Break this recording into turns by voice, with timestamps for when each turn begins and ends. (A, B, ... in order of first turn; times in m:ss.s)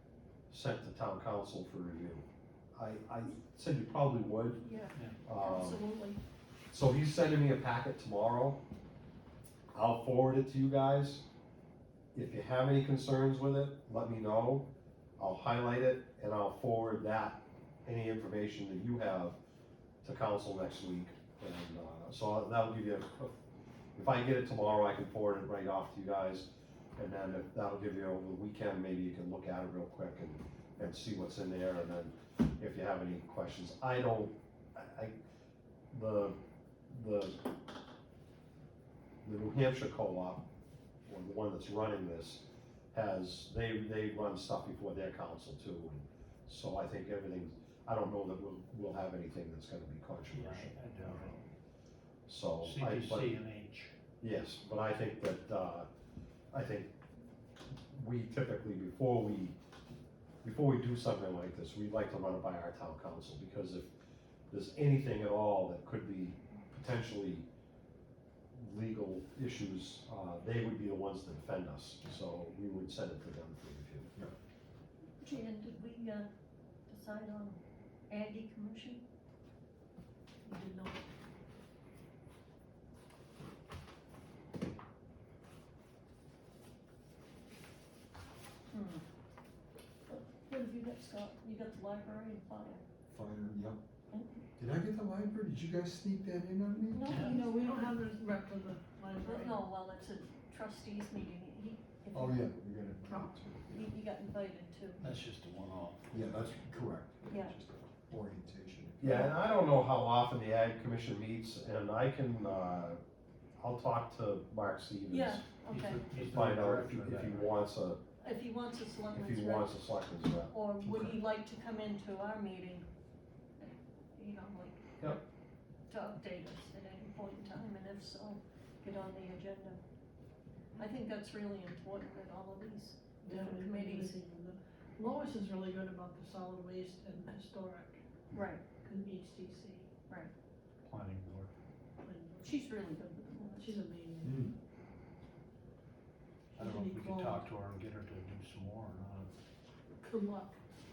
0:00.5-0:04.6 A
0:04.6-0:06.2 B
0:05.2-0:05.8 A
0:06.7-0:08.6 A
0:09.7-0:11.2 A
0:12.1-0:19.4 A
0:20.0-0:23.4 A
0:24.0-0:35.1 A
0:35.9-0:36.4 A
0:36.9-0:37.4 A
0:39.2-0:40.4 A
0:41.0-0:51.3 A
0:50.3-0:51.4 C
0:52.3-0:53.3 A
0:52.6-0:53.9 C
0:54.2-0:55.9 A
0:56.5-0:56.9 A
0:57.9-0:59.6 A
1:00.4-1:03.9 A
1:04.5-1:07.5 A
1:08.5-1:14.1 A
1:15.2-1:16.3 B
1:16.9-1:19.0 B
1:20.4-1:21.0 B
1:28.7-1:29.0 B
1:30.1-1:32.8 B
1:33.1-1:33.8 D
1:34.1-1:34.5 B
1:34.6-1:37.2 D
1:36.9-1:38.0 B
1:37.1-1:37.4 C
1:37.1-1:39.6 E
1:39.2-1:45.0 B
1:42.1-1:43.9 D
1:45.0-1:46.4 C
1:46.1-1:49.3 D
1:47.2-1:47.6 B
1:49.0-1:53.0 A
1:53.6-1:55.4 A
1:55.1-1:56.0 B
1:55.7-1:57.5 C
1:56.1-1:58.0 A
1:58.2-1:59.8 B
1:59.1-2:00.5 A
2:00.5-2:02.9 B
2:03.6-2:05.2 B
2:05.9-2:09.8 B
2:10.8-2:14.2 B
2:13.2-2:18.0 E
2:18.3-2:18.6 B
2:18.8-2:19.9 E
2:20.8-2:21.5 C
2:22.0-2:22.6 E
2:22.4-2:23.8 B
2:23.6-2:24.5 E
2:24.2-2:24.6 D
2:26.6-2:27.4 E
2:26.6-2:29.3 C
2:30.0-2:30.6 E